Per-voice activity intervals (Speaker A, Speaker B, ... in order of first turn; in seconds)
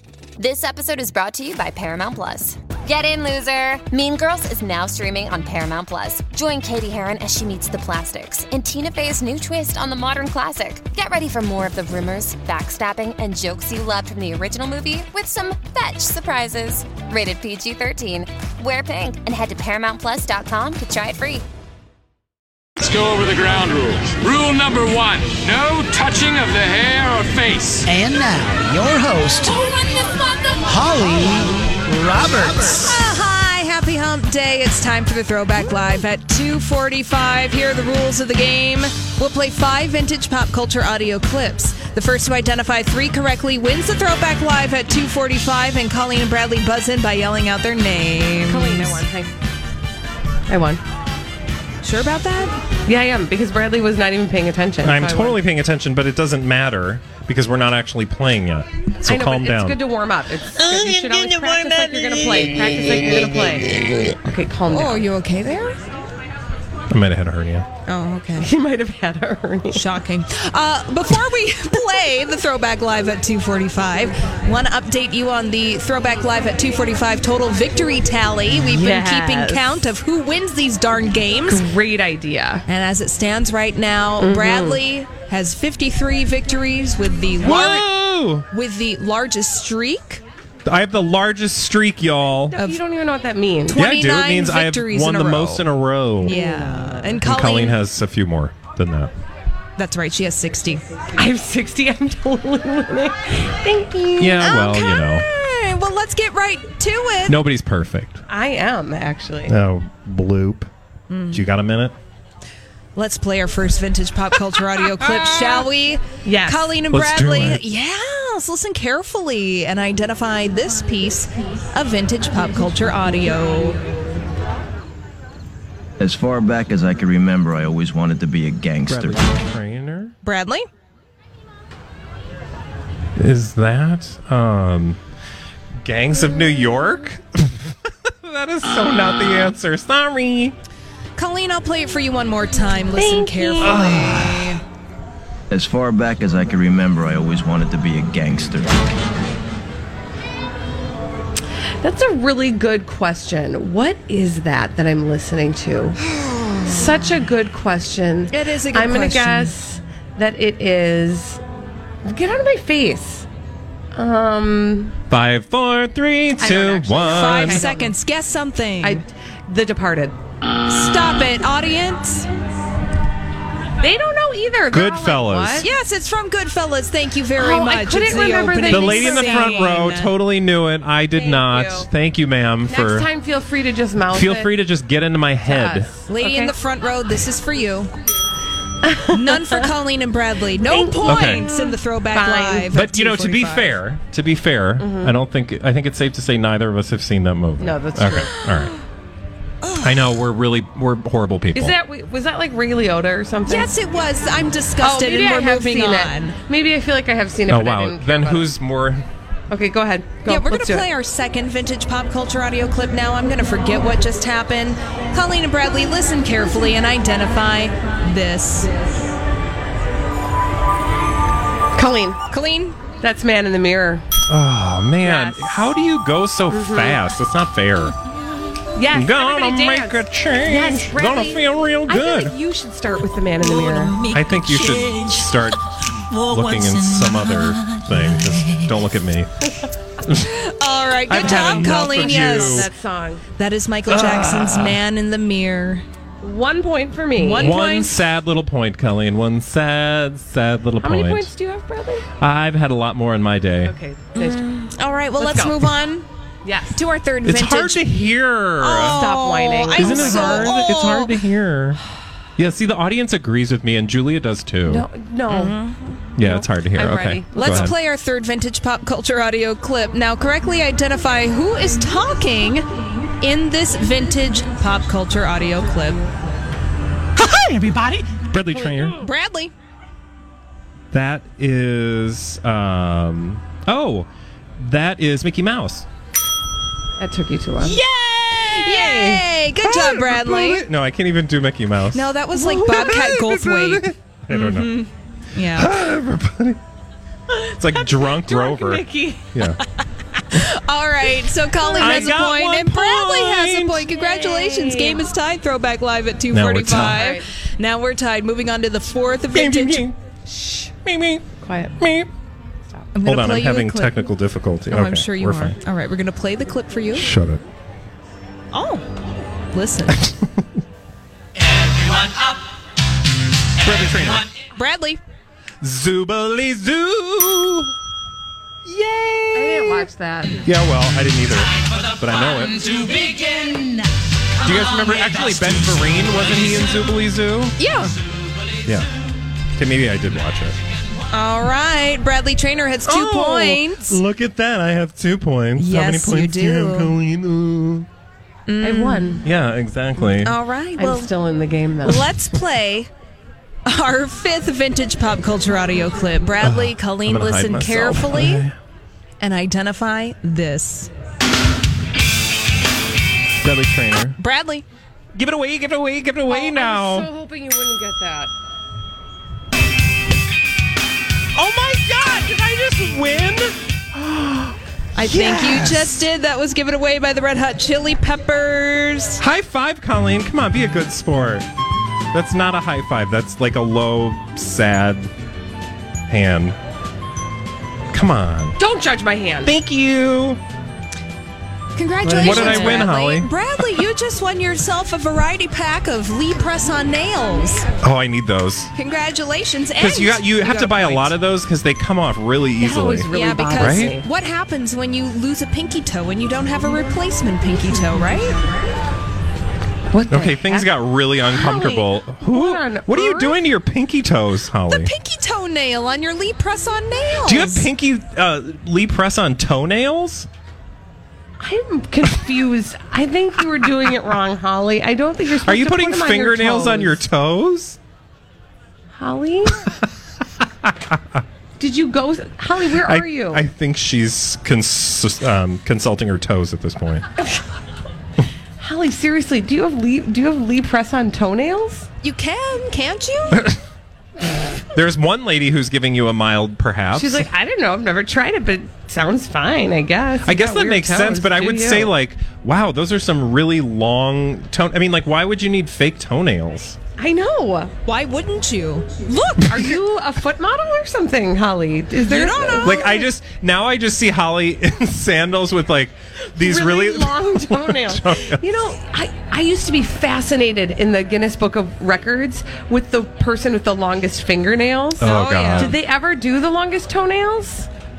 Speaker A: 0.4-21.4
Speaker B: 22.8-27.9
Speaker C: 27.8-29.6, 30.6-33.0
Speaker D: 32.9-49.0, 51.8-52.5, 60.7-62.1, 64.7-65.8, 67.8-68.5, 69.7-81.6, 82.7-87.9, 88.5-90.2, 92.5-92.8, 93.7-95.7, 96.2-97.8, 99.8-100.8, 104.4-107.4, 111.1-111.4, 113.0-123.8, 130.2-130.7, 141.2-144.6, 158.3-159.5, 167.0-169.0, 170.7-172.2, 175.6-180.2, 186.1-187.9, 189.1-193.8, 198.3-198.7, 199.6-200.1, 203.5-206.3, 210.3-218.7, 222.3-222.8, 234.0-235.1, 240.1-242.7, 243.3-245.8, 247.2-248.0, 254.1-256.1, 256.7-257.9, 258.6-261.2, 265.3-266.0, 267.3-272.7, 273.2-276.0, 277.4-277.7, 278.7-279.5, 287.6-290.7, 291.9-295.7, 300.3-309.9, 312.9-314.1, 314.7-317.1, 318.5-318.9, 319.5-320.0, 324.5-325.0, 328.7-329.9, 333.1-333.6, 337.6-337.9, 341.1-344.0, 345.6-347.0, 348.5-349.2, 350.2-351.1, 351.8-352.9, 353.7-358.4, 359.2-360.9, 364.2-364.6, 374.9-379.2, 391.7-397.6, 398.7-401.0, 403.1-408.4, 414.7-417.7, 442.0-443.5, 457.9-459.6, 461.9-463.1, 475.0-475.8
Speaker E: 48.5-49.3, 50.5-50.8, 52.9-55.4, 59.1-65.1, 68.4-69.9, 78.7-79.8, 81.5-82.6, 84.2-84.8, 92.5-93.8, 96.2-97.2, 101.2-104.6, 108.3-109.5, 116.2-116.7, 142.9-143.8, 151.8-156.0, 156.6-161.4, 162.1-163.2, 163.9-164.9, 166.4-167.9, 168.8-170.2, 173.8-175.7, 177.4-179.9, 181.1-181.9, 182.7-184.5, 185.4-186.5, 188.8-189.6, 190.7-192.8, 194.8-195.2, 197.6-198.4, 201.5-203.7, 204.8-208.5, 209.5-210.9, 221.8-222.2, 223.0-224.0, 225.0-225.7, 226.5-227.0, 228.7-234.0, 241.3-243.2, 246.2-247.6, 250.8-252.1, 253.6-254.5, 255.2-255.7, 256.4-256.8, 258.9-260.6, 264.7-265.6, 266.2-267.7, 287.0-287.8, 288.6-289.1, 297.3-299.6, 301.6-302.2, 303.9-305.1, 306.7-307.3, 310.3-310.7, 311.4-311.8, 329.3-330.4, 343.1-343.6, 348.6-349.2, 350.8-352.1, 366.3-368.3, 388.6-389.5, 392.1-392.9, 400.4-401.1, 402.6-404.1, 409.9-413.4, 421.4-427.0, 428.9-429.8, 431.6-433.4, 438.6-441.9, 446.9-451.9, 457.0-457.7, 459.4-463.0, 466.3-477.7
Speaker F: 54.8-59.8, 66.9-67.7, 87.4-88.5, 90.7-92.5, 93.7-96.4, 97.2-99.1, 104.2-105.3, 107.2-108.2, 109.5-110.7, 111.3-111.9, 115.0-115.7, 116.9-117.6, 128.9-130.2, 133.2-135.0, 135.8-140.6, 143.6-144.6, 165.1-167.7, 174.7-175.7, 178.7-183.1, 184.1-185.9, 191.0-191.4, 192.7-198.7, 199.8-201.8, 207.5-209.1, 224.3-227.9, 228.9-232.3, 234.0-239.3, 241.1-242.7, 243.9-244.8, 247.4-251.3, 252.2-253.7, 257.2-259.1, 259.7-261.8, 262.4-264.9, 266.1-267.8, 278.1-279.0, 280.9-285.9, 289.6-294.7, 295.5-296.6, 297.6-299.6, 301.8-303.9, 306.3-307.0, 309.3-310.0, 310.8-312.1, 313.0-315.6, 316.9-317.4, 319.9-320.2, 323.6-324.3, 325.6-327.7, 330.4-333.1, 334.4-337.6, 339.6-340.6, 342.9-347.9, 349.2-350.4, 356.4-358.6, 363.4-364.2, 365.1-367.1, 371.3-376.1, 379.2-381.5, 382.1-385.1, 386.1-386.6, 387.9-388.6, 389.4-390.4, 392.0-393.3, 397.8-398.7, 399.8-404.0, 410.1-414.9, 417.2-420.3, 425.4-427.8, 430.4-431.2, 432.8-437.0, 443.3-443.6, 444.7-447.3, 450.2-456.8, 462.6-468.4, 475.0-475.8
Speaker G: 126.0-129.3, 145.5-148.7